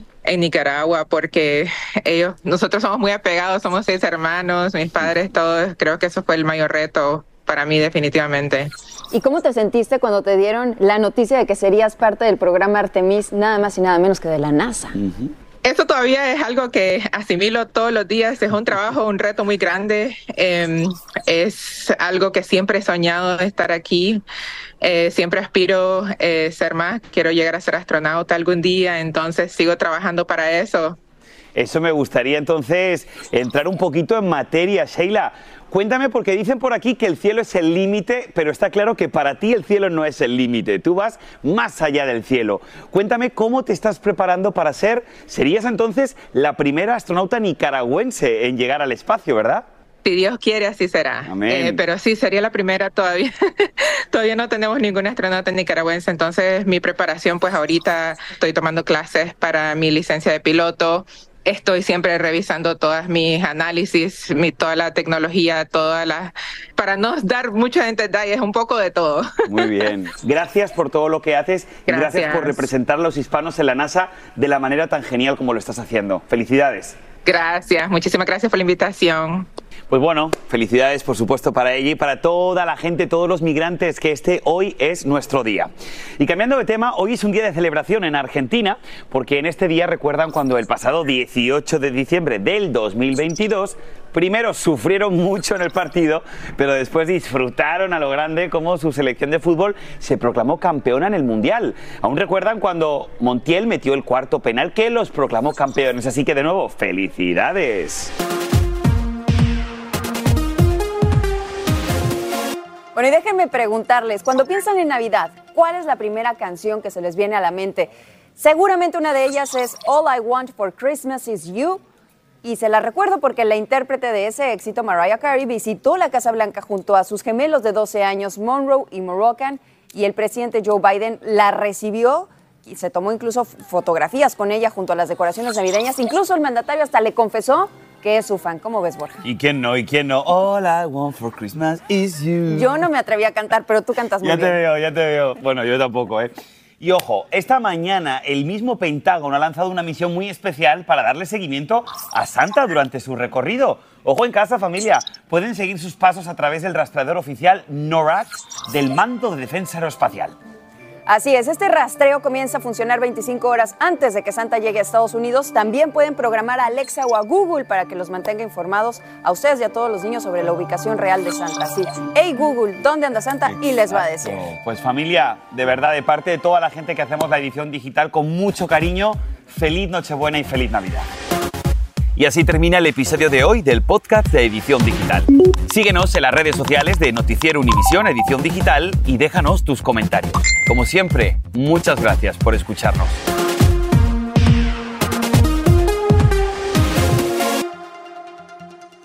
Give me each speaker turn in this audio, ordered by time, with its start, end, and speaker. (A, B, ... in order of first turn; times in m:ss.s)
0:00.2-0:08.7 A
0:09.1-0:15.0 B
0:14.9-0:15.3 C
0:15.6-0:24.2 A
0:24.8-0:31.0 A
0:31.5-0:49.6 C
0:50.0-1:09.7 A
0:51.2-0:51.9 C
1:09.4-1:17.0 C
1:11.9-1:12.6 A
1:17.2-1:19.5 A
1:19.9-1:48.1 C
1:52.9-2:01.8 B
2:02.4-2:19.2 B
2:19.2-2:22.8 C
2:22.5-2:24.6 B
2:24.2-2:40.4 C
2:41.1-2:54.4 B
2:53.4-3:01.1 C
3:02.2-3:13.2 C